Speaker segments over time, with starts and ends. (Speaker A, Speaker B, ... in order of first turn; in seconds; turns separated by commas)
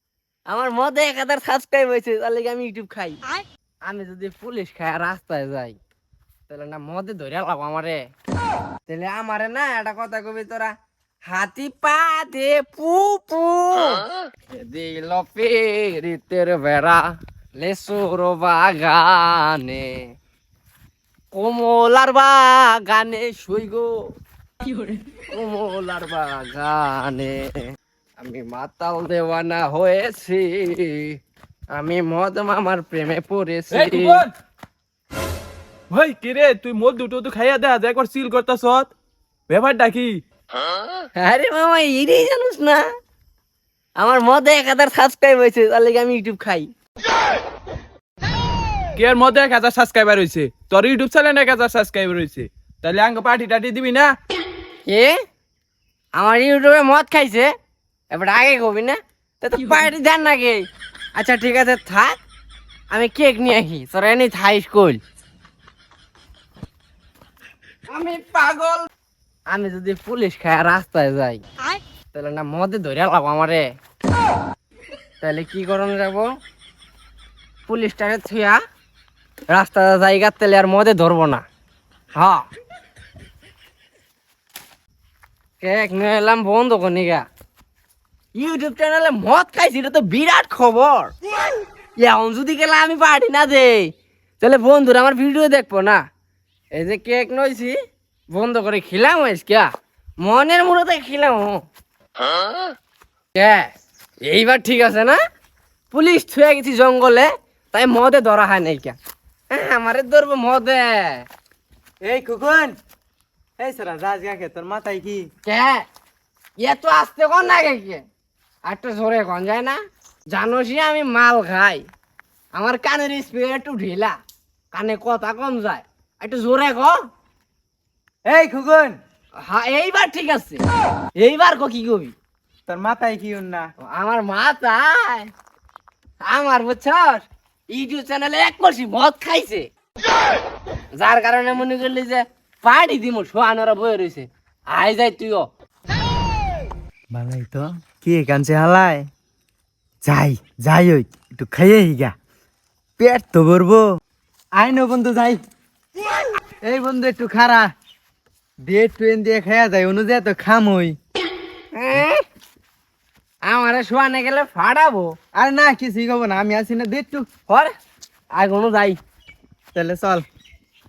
Speaker A: 0.5-3.2, Speaker A: 3.9-5.8, Speaker A: 6.5-8.0, Speaker A: 8.9-10.7, Speaker A: 11.3-17.0, Speaker A: 17.6-20.1, Speaker A: 21.3-24.1, Speaker A: 24.9-31.2, Speaker A: 31.7-34.2, Speaker B: 33.7-34.3, Speaker B: 35.9-38.9, Speaker B: 39.5-40.2, Speaker A: 41.2-42.8, Speaker A: 44.0-46.7, Speaker B: 49.0-54.1, Speaker A: 54.9-55.2, Speaker A: 56.1-57.5, Speaker A: 58.1-60.6, Speaker A: 61.1-62.2, Speaker A: 62.9-65.0, Speaker A: 67.9-68.9, Speaker A: 69.5-71.4, Speaker A: 72.1-73.7, Speaker A: 75.2-76.3, Speaker A: 77.7-78.6, Speaker A: 79.5-81.4, Speaker A: 82.2-82.4, Speaker A: 85.6-87.2, Speaker A: 88.3-91.1, Speaker A: 92.0-96.0, Speaker A: 96.8-97.8, Speaker A: 98.3-99.7, Speaker A: 100.2-101.6, Speaker A: 103.3-103.7, Speaker A: 104.2-105.2, Speaker A: 105.9-109.0, Speaker A: 109.5-111.2, Speaker C: 112.0-112.7, Speaker C: 113.6-115.2, Speaker A: 115.5-115.8, Speaker A: 116.6-118.0, Speaker A: 118.7-119.8, Speaker A: 120.3-121.8, Speaker A: 122.5-124.2, Speaker A: 124.7-127.0, Speaker C: 128.3-129.0, Speaker A: 129.4-130.6, Speaker A: 131.2-132.1, Speaker C: 132.7-133.7, Speaker A: 133.8-135.3, Speaker A: 136.2-139.7, Speaker A: 140.9-145.5, Speaker C: 147.1-149.1, Speaker C: 150.0-152.1, Speaker C: 153.0-153.8, Speaker C: 154.6-155.4, Speaker C: 156.6-157.7, Speaker C: 158.7-160.9, Speaker A: 161.7-162.2, Speaker A: 163.4-165.1, Speaker C: 165.3-167.2, Speaker A: 168.3-169.0, Speaker C: 169.7-170.2